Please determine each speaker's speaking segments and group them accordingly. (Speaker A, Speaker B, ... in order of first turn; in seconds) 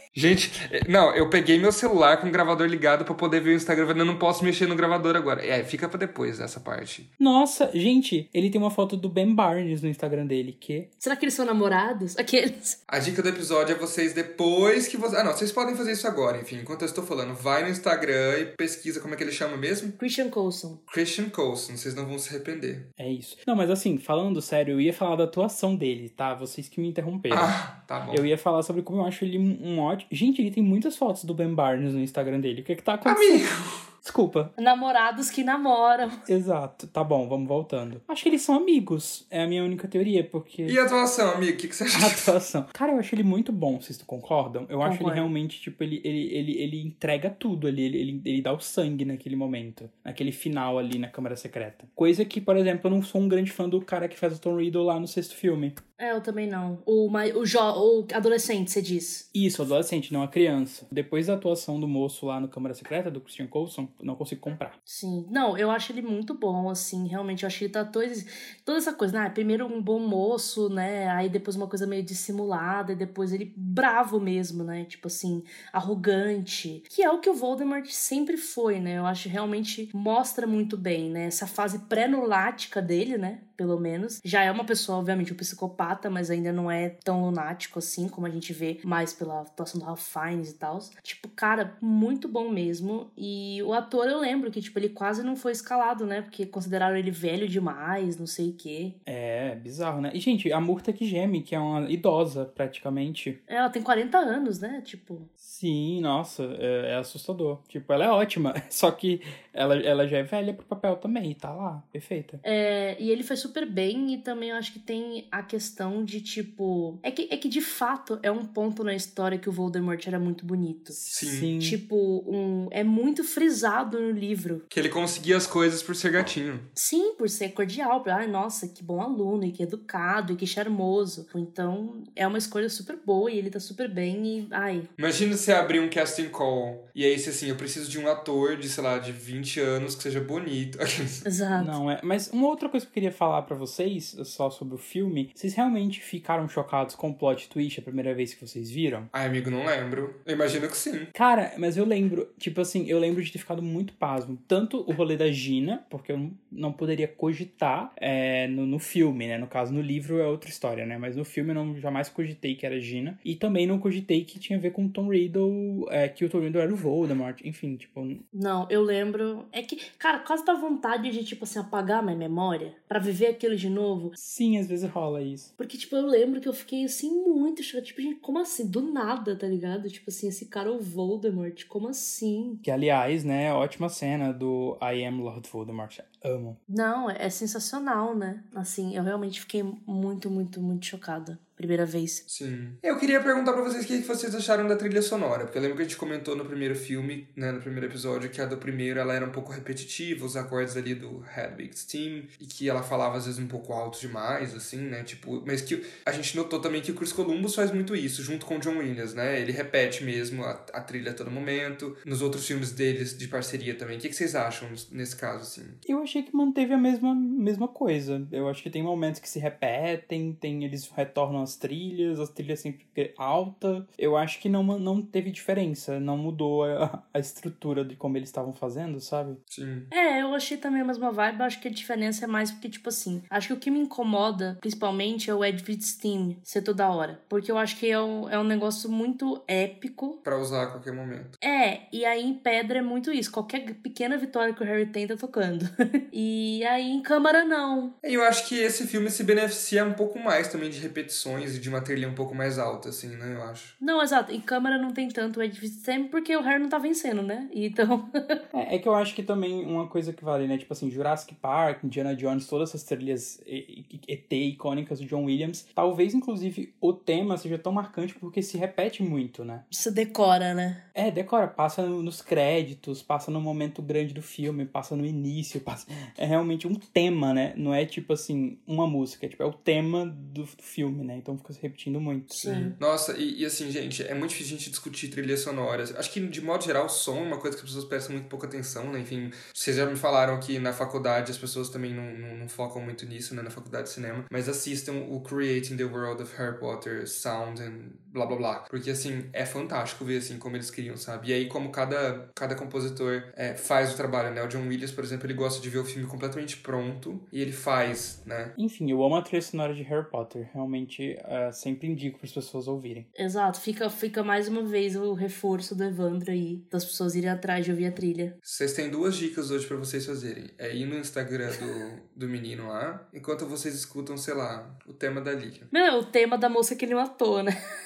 Speaker A: 0.1-7.1, 12.9-20.0, 20.9-22.9, 27.3-28.2, 33.0-33.9, 40.7-42.3, 121.1-121.5, 124.7-126.7, 135.0-141.2, 149.1-151.1, 192.3-215.8, 229.5-229.9, 240.2-241.4, 248.0-253.7, 282.4-308.5, 318.4-325.7
Speaker B: 7.2-10.9, 23.0-27.6, 28.1-33.5, 34.0-34.5, 36.3-40.8, 41.9-55.8, 59.3-64.8, 99.1-103.4, 105.4-112.4, 121.0-121.8, 141.6-149.1, 151.1-168.2, 174.2-175.5, 182.6-186.6, 215.8-229.4, 258.5-269.6, 270.9-282.5, 308.6-313.1
Speaker C: 11.0-12.8, 20.0-20.8, 34.6-36.2, 44.8-45.3, 56.0-59.3, 64.9-99.0, 103.5-105.3, 112.4-121.0, 121.6-124.6, 126.8-134.9, 141.3-141.7, 168.3-174.2, 175.6-182.6, 186.7-192.2, 229.9-240.2, 241.4-247.9, 253.8-258.4, 269.7-270.8, 282.4-282.8, 313.1-318.3, 325.7-327.5